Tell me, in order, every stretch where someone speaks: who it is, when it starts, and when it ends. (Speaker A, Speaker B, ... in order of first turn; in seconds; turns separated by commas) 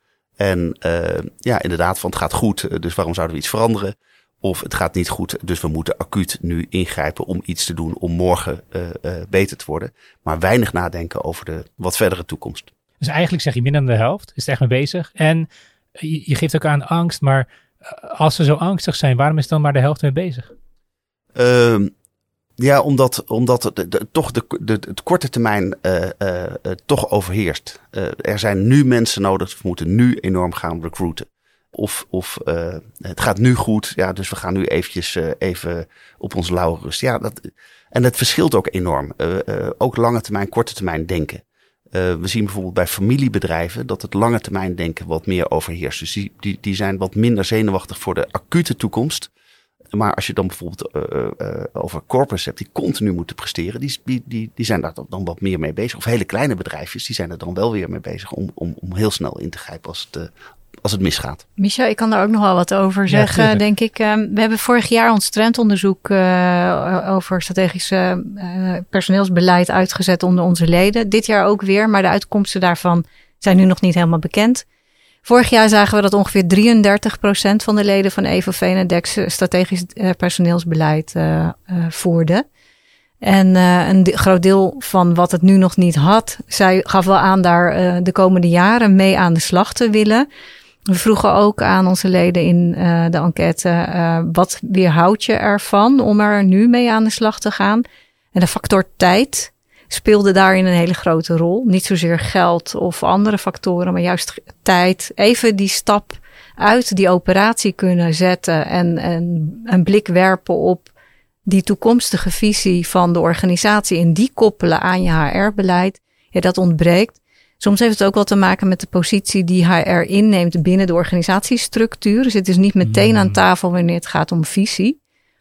Speaker A: 0.4-12.7, Speaker B: 13.0-20.5, Speaker A: 21.4-21.9, Speaker A: 22.6-49.3, Speaker A: 49.9-60.3, Speaker A: 60.8-61.4, Speaker C: 61.6-74.7, Speaker B: 63.1-63.6, Speaker C: 75.2-82.4, Speaker C: 83.2-90.3, Speaker C: 90.9-97.8, Speaker C: 98.3-110.9, Speaker C: 111.5-125.0, Speaker B: 122.9-123.4